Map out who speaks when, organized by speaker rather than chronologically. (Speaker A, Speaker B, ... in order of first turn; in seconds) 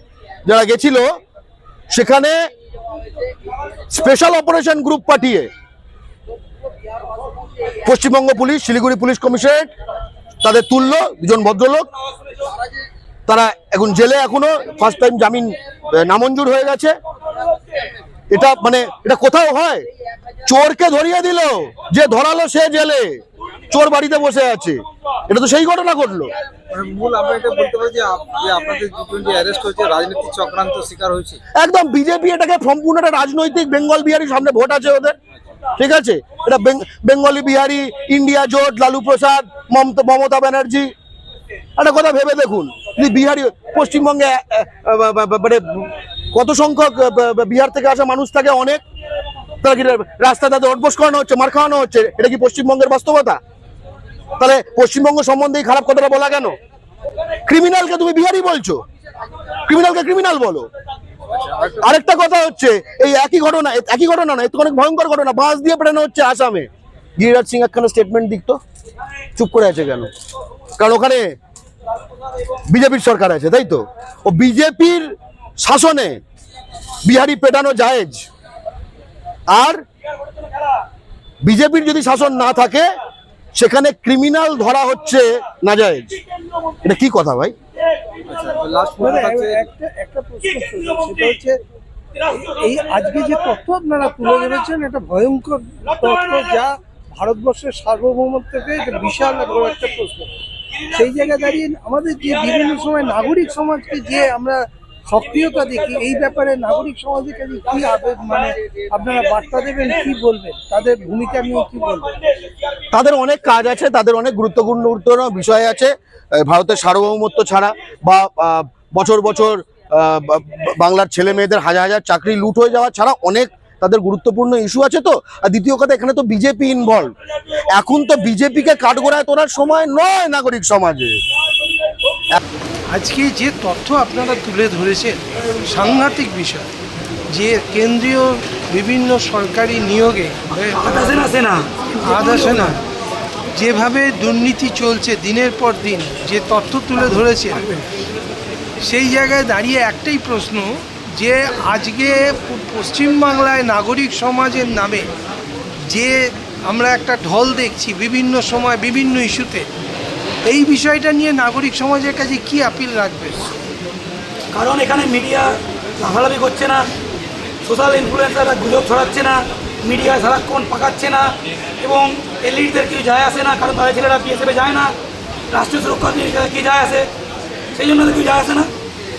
Speaker A: 0.5-1.2, 1.9-2.3, 3.9-5.5, 7.8-9.7, 10.4-11.9, 13.3-17.0, 18.3-19.9, 20.4-26.3, 31.6-35.1, 35.8-40.9, 41.8-48.8, 49.6-53.4, 54.4-56.5, 57.5-58.8, 59.6-60.7, 61.8-68.6, 69.3-70.1, 70.8-71.3, 72.7-75.0, 75.6-76.2, 77.0-78.2, 79.5-79.8, 81.4-82.8, 83.5-86.1, 86.8-87.5, 112.9-127.1, 127.7-131.2
Speaker B: 26.7-31.4, 88.2-89.6
Speaker C: 89.0-91.6, 92.3-100.3, 100.9-112.2, 132.9-135.2, 135.7-136.7, 137.3-140.6, 143.6-147.6, 148.8-155.1, 155.9-159.7, 160.4-163.4
Speaker D: 140.5-142.8, 147.0-147.9, 164.5-166.9, 167.6-174.9, 175.5-177.1, 177.7-178.7